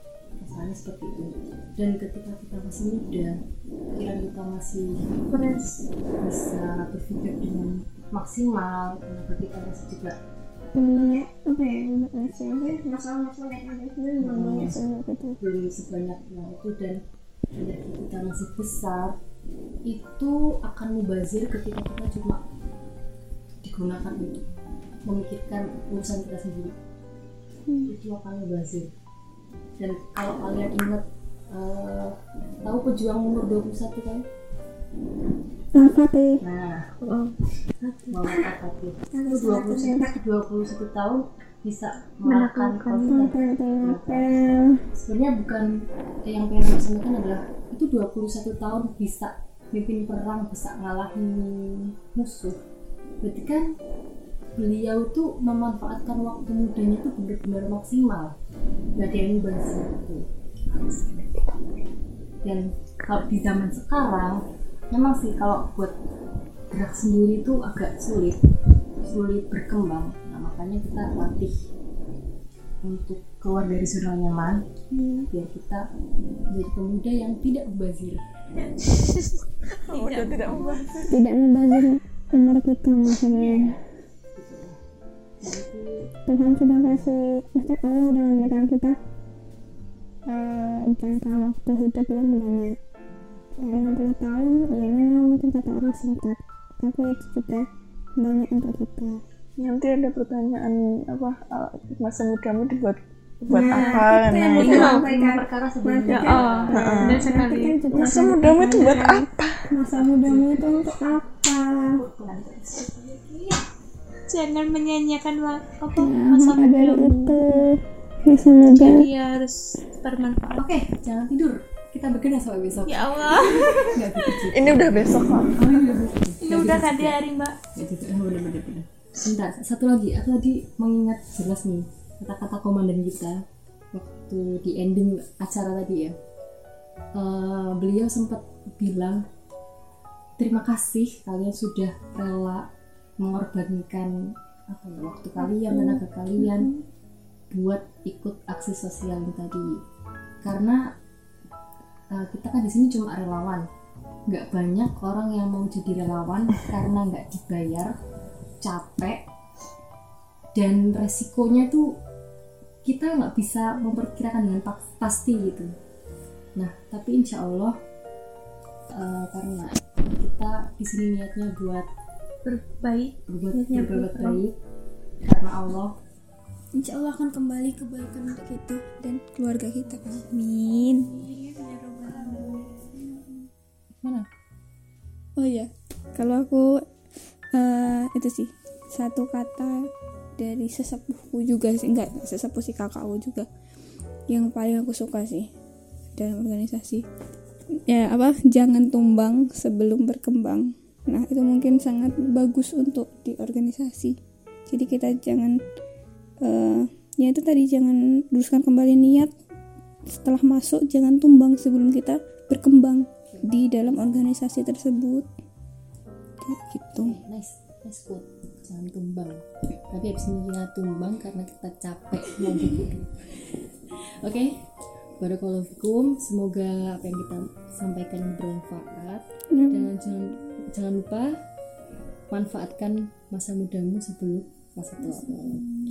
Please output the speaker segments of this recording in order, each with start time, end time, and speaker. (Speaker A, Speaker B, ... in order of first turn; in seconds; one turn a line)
Speaker A: 0.4-3.4
Speaker A: 3.9-5.2
Speaker B: 5.3-5.8
Speaker A: 6.2-10.2
Speaker C: 10.7-15.4
Speaker A: 14.2-14.8
Speaker A: 15.4-17.0
Speaker A: 17.6-19.1
Speaker A: 19.9-22.4
Speaker A: 23.6-24.5
Speaker A: 25.1-26.7
Speaker C: 27.6-27.9
Speaker A: 27.8-28.9
Speaker A: 29.8-34.2
Speaker C: 35.7-36.4
Speaker A: 36.4-36.9
Speaker B: 37.0-37.4
Speaker B: 37.9-38.3
Speaker A: 38.0-44.3
Speaker C: 39.1-40.1
Speaker B: 42.2-43.2
Speaker C: 43.0-44.8
Speaker A: 44.9-45.7
Speaker A: 46.2-52.6
Speaker A: 53.2-53.7
Speaker A: 54.5-58.3
Speaker A: 59.0-61.5
Speaker A: 62.4-65.9
Speaker A: 66.7-68.4
Speaker A: 69.0-71.6
Speaker A: 72.8-74.6
Speaker B: 74.9-75.3
Speaker A: 75.3-75.8
Speaker A: 76.5-78.2
Speaker B: 79.8-80.8
Speaker D: 79.9-81.2
Speaker C: 81.1-83.8
Speaker B: 83.3-83.7
Speaker A: 84.3-84.8
Speaker A: 85.4-86.1
Speaker C: 86.3-89.0
Speaker C: 90.3-92.8
Speaker C: 93.6-99.2
Speaker D: 99.6-104.9
Speaker C: 103.5-112.0
Speaker A: 104.6-106.8
Speaker B: 104.6-105.0
Speaker B: 106.1-108.2
Speaker D: 106.1-107.3
Speaker D: 107.9-109.7
Speaker A: 111.9-113.6
Speaker B: 114.3-117.7
Speaker C: 116.0-119.1
Speaker B: 118.6-120.7
Speaker A: 120.5-127.2
Speaker B: 122.8-124.5
Speaker D: 124.5-125.6
Speaker B: 126.4-127.6
Speaker A: 127.7-133.4
Speaker A: 133.9-136.2
Speaker A: 137.1-139.2
Speaker A: 140.4-142.7
Speaker A: 143.2-146.7
Speaker C: 145.7-146.7
Speaker A: 147.5-149.8
Speaker A: 150.4-150.8
Speaker A: 152.1-153.7
Speaker A: 154.3-157.9
Speaker A: 158.6-159.3
Speaker A: 160.5-161.9
Speaker A: 162.8-165.7
Speaker A: 166.6-167.8
Speaker A: 168.9-171.9
Speaker B: 172.4-174.4
Speaker A: 173.2-174.5
Speaker A: 175.2-175.9
Speaker C: 176.8-181.1
Speaker A: 179.8-180.4
Speaker B: 181.0-183.2
Speaker C: 185.4-186.8
Speaker C: 187.5-193.5
Speaker C: 194.3-195.5
Speaker C: 196.2-197.0
Speaker C: 197.9-204.2
Speaker C: 204.7-205.6
Speaker C: 206.4-209.3
Speaker C: 210.1-215.3
Speaker A: 213.3-214.2
Speaker C: 216.4-217.2
Speaker A: 217.0-223.5
Speaker A: 224.2-224.6
Speaker A: 225.2-231.3
Speaker C: 229.5-229.9
Speaker A: 232.3-235.7